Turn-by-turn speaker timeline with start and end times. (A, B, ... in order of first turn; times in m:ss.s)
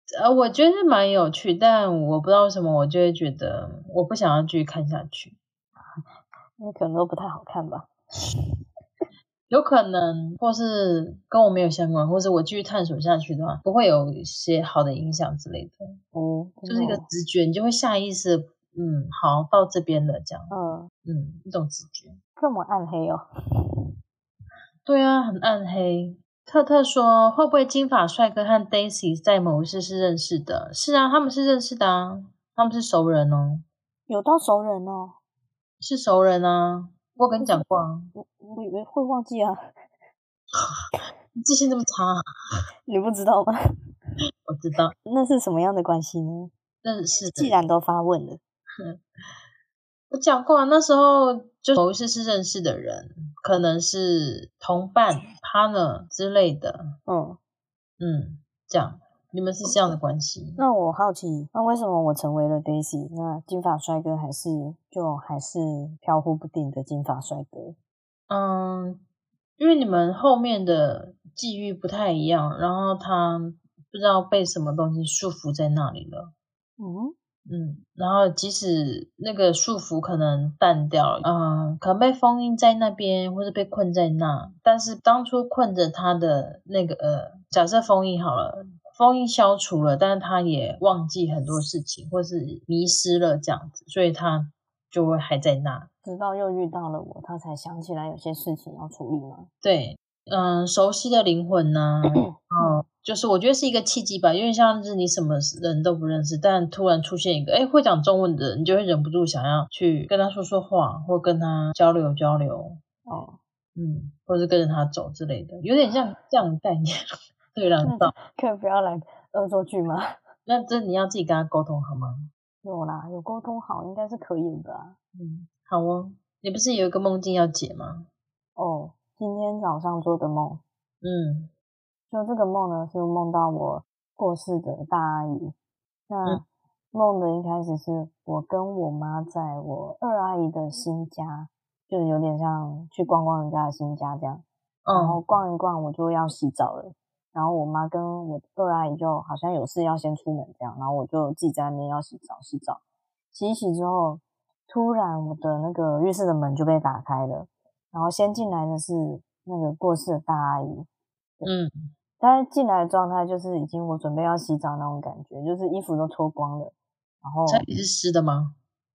0:00.1-0:05.4 A
0:06.6-0:07.9 B
0:09.5-0:16.0 A
0:16.1-0:17.0 B
0:16.7-0:20.5 A
0:20.5-0:20.9 B
0:21.0-0:22.2 A
0:22.4-0:23.2 B
0:24.8-0:33.6 A
0:34.1-0:35.2 B
0:35.8-0:38.1 A
0:38.1-0:39.7 B
0:41.3-0:42.2 A
0:42.9-0:43.6 B
0:44.4-0:44.9 A
0:45.0-0:46.5 B
0:46.8-0:47.6 A
0:47.1-0:48.4 B
0:50.1-0:57.0 A
0:57.1-0:57.4 B
0:58.0-1:00.6 A
1:00.6-1:07.8 B
1:08.3-1:09.0 A
1:09.6-1:16.3 A
1:16.8-1:17.1 B
1:17.5-1:35.9 A
1:36.0-1:39.5 B
1:39.6-1:52.8 A
1:53.1-1:53.4 B
1:53.7-1:56.9 A
1:57.5-1:58.1 A
1:57.8-2:00.2 B
2:00.5-2:02.3 A
2:02.6-2:05.0 B
2:05.1-2:08.1 A
2:08.6-2:10.6 B
2:11.0-2:11.5 A
2:12.1-2:15.5 B
2:16.1-2:32.8 B
2:24.8-2:25.2 A
2:33.3-2:40.9 B
2:41.4-2:41.7 A
2:42.2-2:47.6 B
2:47.5-2:48.6 A